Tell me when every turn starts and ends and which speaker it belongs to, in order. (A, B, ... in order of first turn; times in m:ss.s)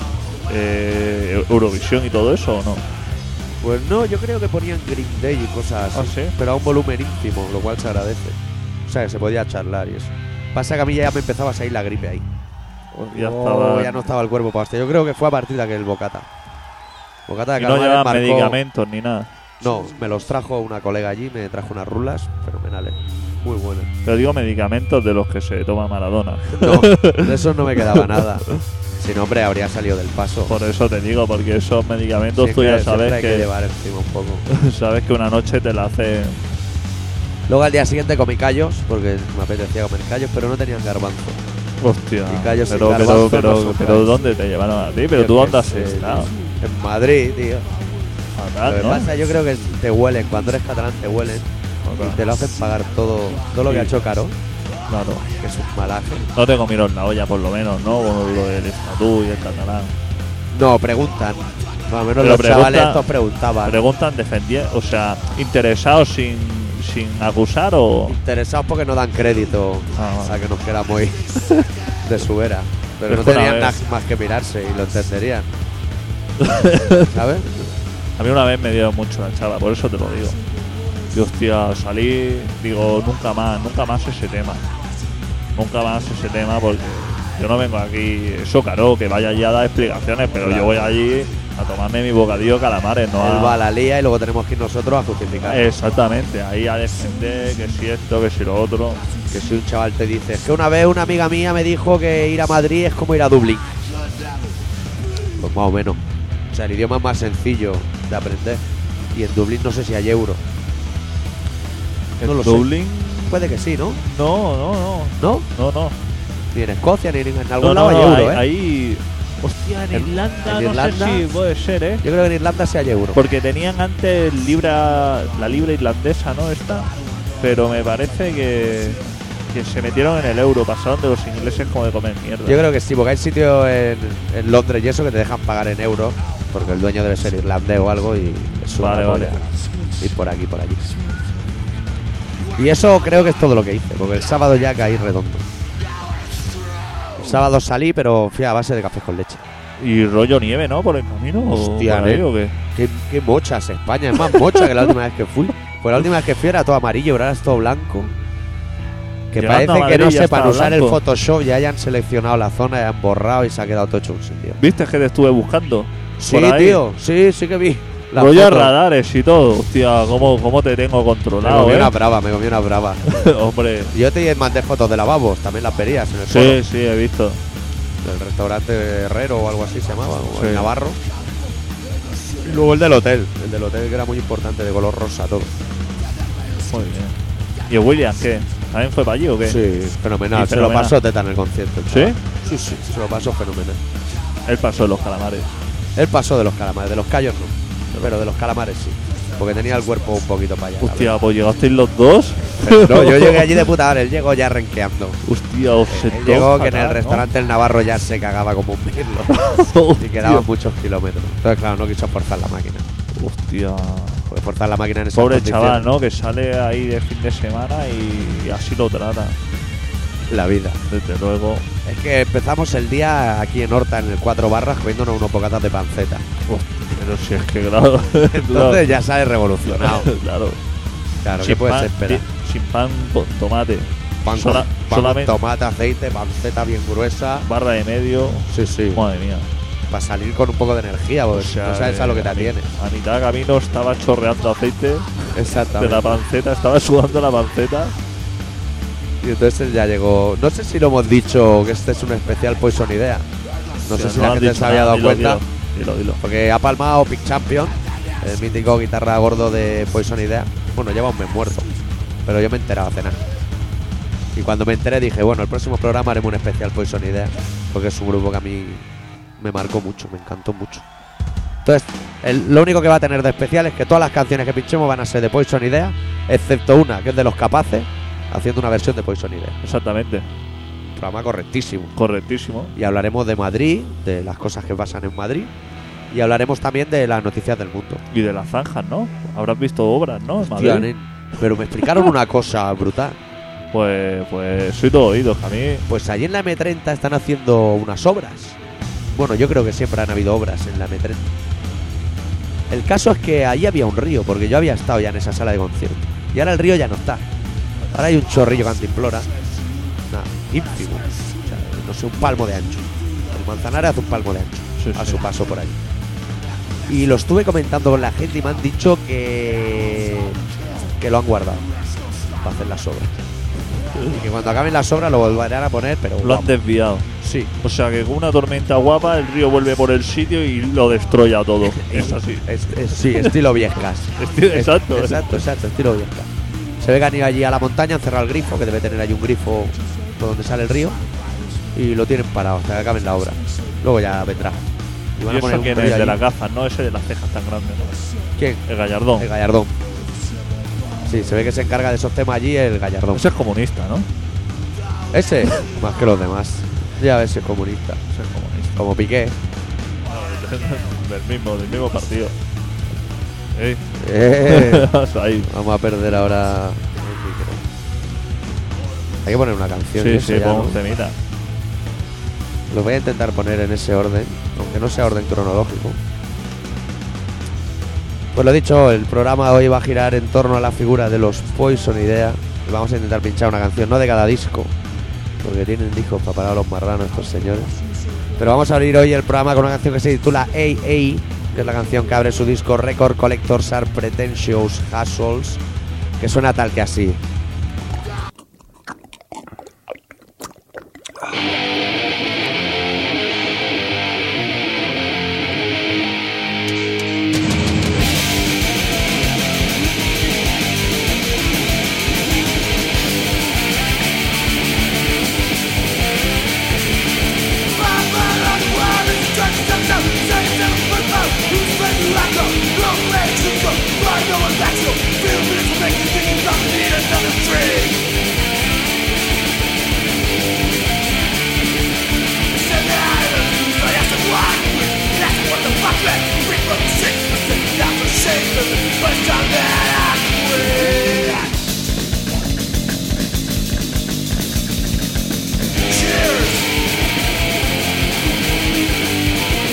0:00.5-0:02.8 A
0:03.6-0:12.3 B
0:05.9-0:06.4 A
0:12.9-0:14.1 A
0:13.1-0:16.3 B
0:17.3-0:18.6 B
0:17.6-0:19.4 A
0:19.6-0:23.9 B
0:24.0-0:28.2 A
0:26.5-0:30.5 B
0:30.5-0:33.5 A
0:32.4-0:34.4 B
0:34.5-0:36.5 A
0:37.5-0:41.4 B
0:41.8-0:46.3 A
0:42.3-0:44.2 B
0:45.1-0:47.7 B
0:48.4-0:49.1 A
0:48.6-0:54.4 B
0:51.8-0:52.2 A
0:53.6-0:53.9 A
0:54.9-0:55.3 A
0:55.4-0:56.3 B
0:56.4-1:00.0 A
1:00.5-1:03.8 B
1:02.2-1:03.0 A
1:03.6-1:08.2 A
1:08.0-1:11.4 B
1:10.0-1:10.4 A
1:12.0-1:15.5 B
1:13.1-1:13.8 A
1:16.4-1:17.1 A
1:17.1-1:17.5 B
1:18.2-1:20.4 A
1:21.1-1:24.6 A
1:25.5-1:33.6 A
1:30.4-1:31.0 B
1:33.2-1:35.7 B
1:35.5-1:39.0 A
1:39.3-1:43.8 B
1:45.4-1:50.4 B
1:52.2-1:56.0 A
1:52.2-1:52.7 B
1:53.3-1:54.0 B
1:55.2-1:55.5 B
1:56.5-1:58.4 B
1:57.6-2:02.0 A
1:59.9-2:01.2 B
2:02.0-2:03.2 B
2:03.1-2:12.6 A
2:12.4-2:21.0 B
2:18.8-2:19.4 A
2:22.5-2:25.5 B
2:27.2-2:29.4 B
2:29.8-2:32.6 A
2:31.5-2:38.1 B
2:39.3-2:44.6 B
2:39.4-2:41.0 A
2:44.6-2:46.8 A
2:46.2-2:48.7 B
2:48.1-2:52.0 A
2:51.4-2:53.1 B
2:53.0-2:53.9 A
2:53.9-2:56.6 B
2:56.3-2:57.4 A
2:58.0-3:01.0 B
3:00.4-3:00.7 A
3:02.4-3:05.5 B
3:06.7-3:09.6 A
3:09.4-3:13.8 B
3:10.3-3:11.0 A
3:11.9-3:12.2 A
3:14.5-3:15.5 A
3:16.0-3:21.2 B
3:20.8-3:23.6 A
3:22.6-3:25.2 B
3:25.2-3:27.2 A
3:25.9-3:32.9 B
3:29.3-3:30.5 A
3:33.1-3:34.2 A
3:34.3-3:35.9 B
3:35.1-3:39.4 A
3:40.3-3:40.8 B
3:40.9-3:41.6 A
3:41.8-3:46.3 B
3:46.5-3:48.8 A
3:48.3-3:50.1 B
3:49.6-3:50.6 A
3:51.2-3:52.2 B
3:51.4-3:55.4 A
3:54.2-3:57.5 B
3:57.4-3:59.5 A
3:58.5-3:59.0 B
3:59.9-4:02.7 B
4:01.3-4:08.0 A
4:05.3-4:06.2 B
4:09.2-4:13.2 B
4:13.8-4:15.4 B
4:13.9-4:16.2 A
4:16.2-4:21.7 B
4:22.2-4:23.2 B
4:24.3-4:28.9 B
4:29.4-4:30.8 B
4:31.6-4:39.6 B
4:39.6-4:40.3 A
4:41.0-4:41.9 B
4:42.0-4:42.7 A
4:42.8-4:45.5 B
4:46.1-4:48.0 B
4:48.1-4:50.9 A
4:50.4-4:53.2 B
4:53.7-4:55.8 A
4:55.9-4:58.6 B
4:59.1-5:01.3 B
5:02.7-5:07.2 B
5:07.9-5:09.3 B
5:10.1-5:15.8 B
5:14.8-5:15.2 A
5:16.9-5:20.4 B
5:21.0-5:21.7 B
5:22.4-5:23.2 B
5:23.9-5:26.5 B
5:26.2-5:27.1 A
5:27.2-5:27.5 B
5:27.6-5:33.4 A
5:31.7-5:41.0 B
5:34.2-5:35.4 A
5:41.7-5:46.2 B
5:45.2-5:48.0 A
5:48.4-5:49.8 B
5:48.6-5:49.3 A
5:51.0-5:53.2 B
5:53.1-5:54.1 A
5:55.1-5:58.0 B
5:58.1-5:58.8 A
5:58.8-5:59.4 B
6:00.1-6:02.4 A
6:03.5-6:03.8 A
6:04.0-6:04.9 B
6:04.5-6:05.5 A
6:05.4-6:07.6 B
6:09.2-6:10.8 B
6:10.0-6:11.2 A
6:12.7-6:16.0 B
6:18.3-6:24.7 B
6:25.4-6:27.8 B
6:28.4-6:35.6 B
6:36.2-6:37.2 B
6:57.7-7:08.0 C
7:12.5-7:21.6 C
7:25.9-7:26.7 C